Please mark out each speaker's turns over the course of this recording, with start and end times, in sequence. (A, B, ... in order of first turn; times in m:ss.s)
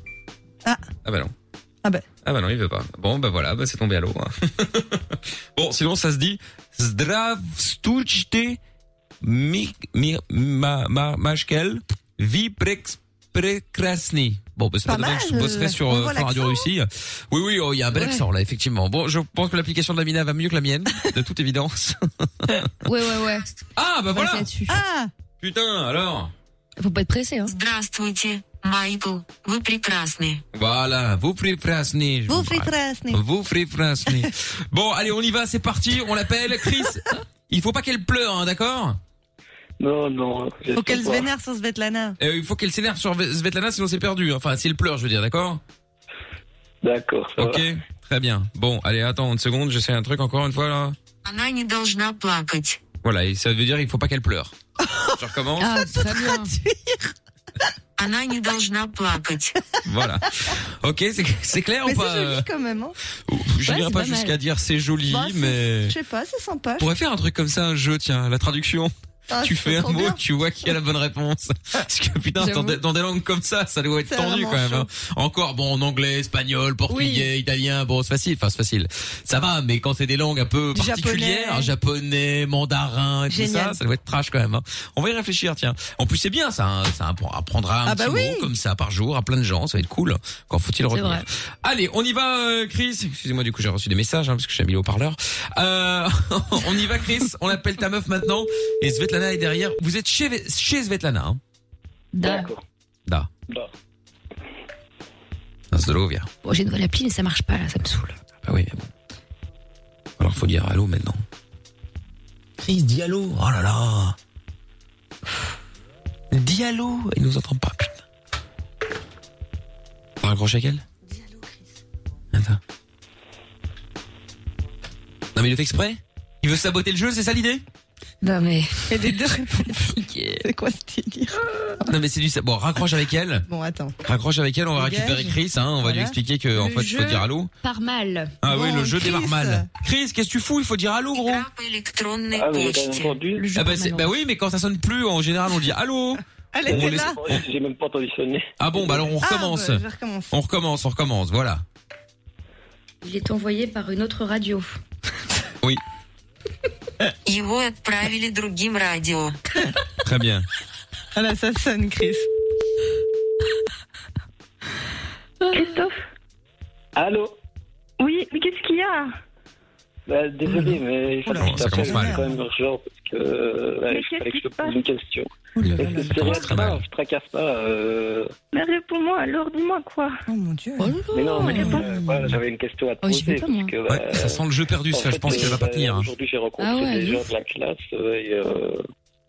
0:01.0-0:01.3 A
0:02.2-0:08.6 A
0:09.2-0:22.7 A
0:14.8-0:16.7 B
0:17.9-0:18.2 C
0:22.8-0:23.5 C
0:23.7-0:24.5 A
0:24.1-0:24.8 C
0:24.7-0:25.1 B
0:25.4-0:26.3 A
0:26.8-0:27.5 C
0:27.4-0:30.4 D
0:30.5-0:39.0 A
0:32.3-0:33.2 B
0:39.8-0:41.3 E
0:40.8-0:42.2 B
0:42.2-0:45.6 A
0:46.8-0:47.7 E
0:47.4-0:51.0 A
0:51.2-0:52.8 D
0:53.0-0:54.5 A
0:54.9-0:55.1 B
0:55.2-0:55.8 A
0:55.6-0:56.5 C
0:55.9-0:57.0 B
0:58.0-0:59.5 D
0:59.8-1:02.5 A
1:01.8-1:03.0 B
1:03.3-1:06.0 A
1:03.6-1:04.3 C
1:05.1-1:06.9 B
1:06.8-1:41.4 A
1:09.3-1:10.2 B
1:12.4-1:12.8 C
1:14.0-1:14.9 B
1:16.9-1:17.3 C
1:20.7-1:21.7 B
1:23.3-1:23.8 B
1:27.8-1:28.5 B
1:30.9-1:31.2 C
1:42.1-1:42.5 C
1:42.2-1:42.6 E
1:45.7-1:46.3 A
1:46.4-1:48.2 C
1:48.4-1:48.9 A
1:50.2-1:51.2 A
1:52.6-1:54.2 A
1:56.3-1:58.0 A
2:00.2-2:00.8 A
2:01.1-2:01.7 B
2:02.3-2:02.6 A
2:05.3-2:07.6 A
2:08.2-2:10.4 C
2:08.9-2:11.4 B
2:11.9-2:13.4 A
2:13.5-2:14.0 B
2:14.0-2:17.5 A
2:14.8-2:16.1 B
2:16.6-2:18.3 C
2:18.4-2:21.5 A
2:18.4-2:19.7 B
2:21.1-2:23.1 D
2:22.3-2:23.5 E
2:23.3-2:24.1 C
2:23.6-2:27.4 A
2:26.5-2:27.2 B
2:26.7-2:29.0 E
2:28.6-2:31.6 A
2:29.2-2:30.3 B
2:33.0-2:34.8 C
2:37.3-2:39.3 D
2:40.0-2:40.4 A
2:41.1-2:42.3 B
2:45.4-2:45.8 C
2:45.6-2:45.9 F
2:47.0-2:47.4 E
2:48.0-2:49.1 F
2:50.1-2:58.3 E
2:50.5-2:52.4 B
2:51.4-2:52.2 A
2:53.9-2:54.7 F
2:55.6-2:56.4 B
2:55.6-2:56.8 A
2:58.5-3:00.2 F
3:00.3-3:01.0 B
3:00.8-3:02.1 C
3:01.1-3:08.8 E
3:01.5-3:01.8 B
3:03.0-3:03.7 C
3:03.9-3:06.1 A
3:06.6-3:07.2 C